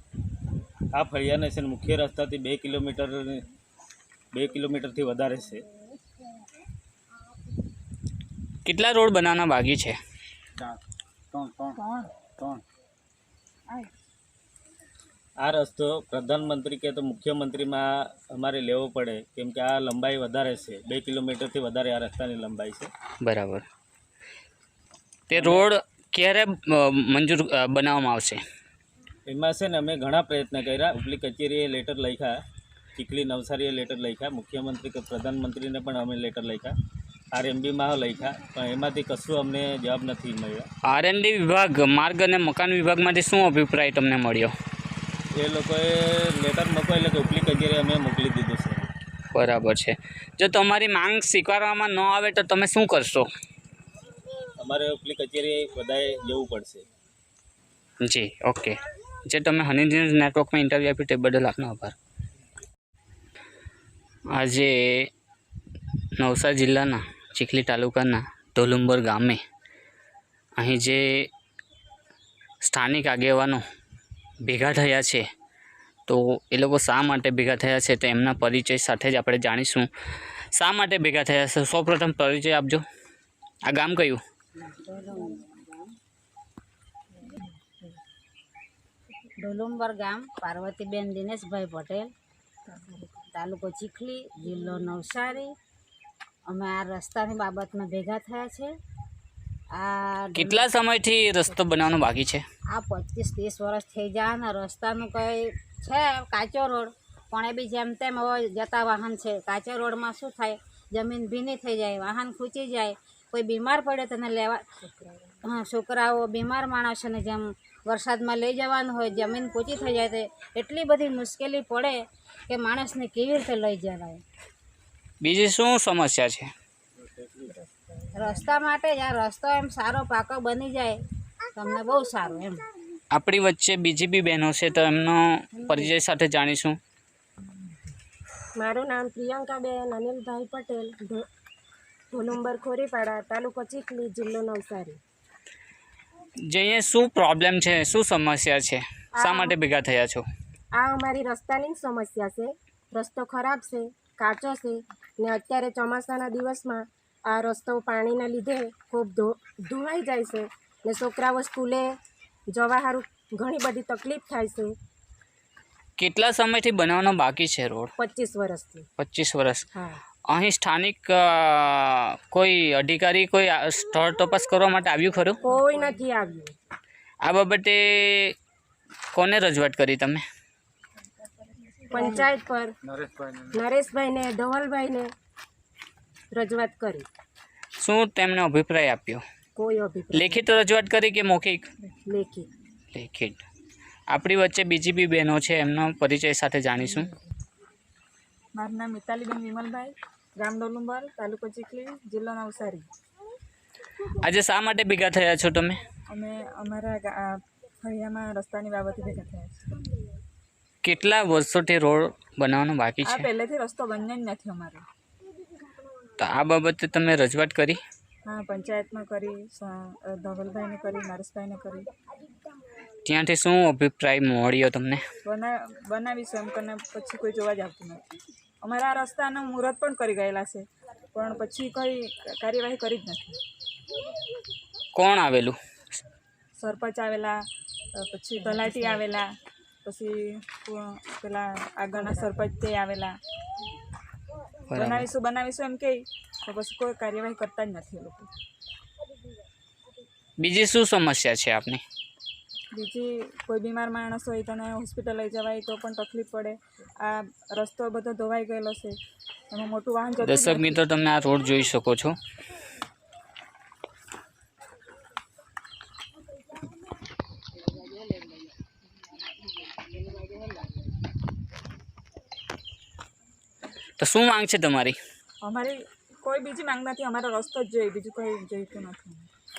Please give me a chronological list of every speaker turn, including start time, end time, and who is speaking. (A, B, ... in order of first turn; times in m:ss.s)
0:00.9-0:03.4 A
0:04.3-0:05.6 A
0:08.6-0:10.0 B
0:11.3-0:12.6 C
0:15.4-0:22.9 A
0:23.2-0:23.6 B
0:25.3-0:28.4 B
0:25.3-0:25.7 A
0:29.3-0:32.4 A
0:33.0-0:36.7 A
0:37.3-0:40.7 A
0:40.8-0:44.5 B
0:45.4-0:48.8 A
0:49.3-0:53.3 B
0:54.6-0:56.8 A
0:58.0-1:02.0 B
1:04.4-1:05.1 B
1:06.2-1:09.4 B
1:10.6-1:11.3 B
1:12.6-1:13.6 B
1:14.4-1:15.2 B
1:16.1-1:19.9 B
1:20.6-1:22.8 B
1:23.7-1:24.2 B
1:24.7-1:25.8 D
1:29.4-1:32.1 D
1:33.3-1:35.5 D
1:36.5-1:38.7 D
1:39.7-1:40.7 D
1:40.4-1:42.4 B
1:42.7-1:54.6 D
1:55.4-2:04.2 D
2:05.2-2:06.5 B
2:08.1-2:11.0 D
2:11.5-2:12.6 D
2:13.1-2:16.8 B
2:15.5-2:15.9 D
2:18.6-2:21.3 E
2:22.1-2:25.0 E
2:26.5-2:30.2 B
2:29.2-2:29.6 E
2:30.8-2:41.9 E
2:42.5-2:44.8 E
2:46.0-2:47.9 B
2:48.0-2:48.9 E
2:49.0-2:49.7 B
2:49.7-2:50.0 E
2:50.3-2:55.4 B
2:55.4-2:56.6 E
2:57.2-2:58.4 B
2:59.1-3:00.2 B
3:01.9-3:02.8 E
3:02.8-3:03.6 C
3:03.5-3:05.1 E
3:06.3-3:07.1 E
3:07.8-3:09.2 B
3:09.6-3:10.4 E
3:10.1-3:11.7 B
3:12.0-3:12.5 E
3:12.9-3:13.4 B
3:14.1-3:17.1 B
3:18.6-3:22.9 F
3:24.2-3:25.8 B
3:26.1-3:29.6 F
3:30.8-3:33.3 B
3:33.0-3:34.8 F
3:36.2-3:37.8 B
3:38.2-3:41.9 F
3:43.0-3:45.0 B
3:45.2-3:48.0 F
3:48.6-3:53.4 F
3:54.9-3:55.6 B
3:56.6-3:57.4 F
3:58.0-3:59.3 F
3:59.8-4:03.2 F
4:04.7-4:05.1 B
4:04.7-4:08.3 F
4:10.4-4:11.8 B
4:12.7-4:19.0 F
4:19.5-4:20.8 F
4:20.2-4:22.2 B
4:34.0-4:35.0 B
4:35.4-4:39.3 F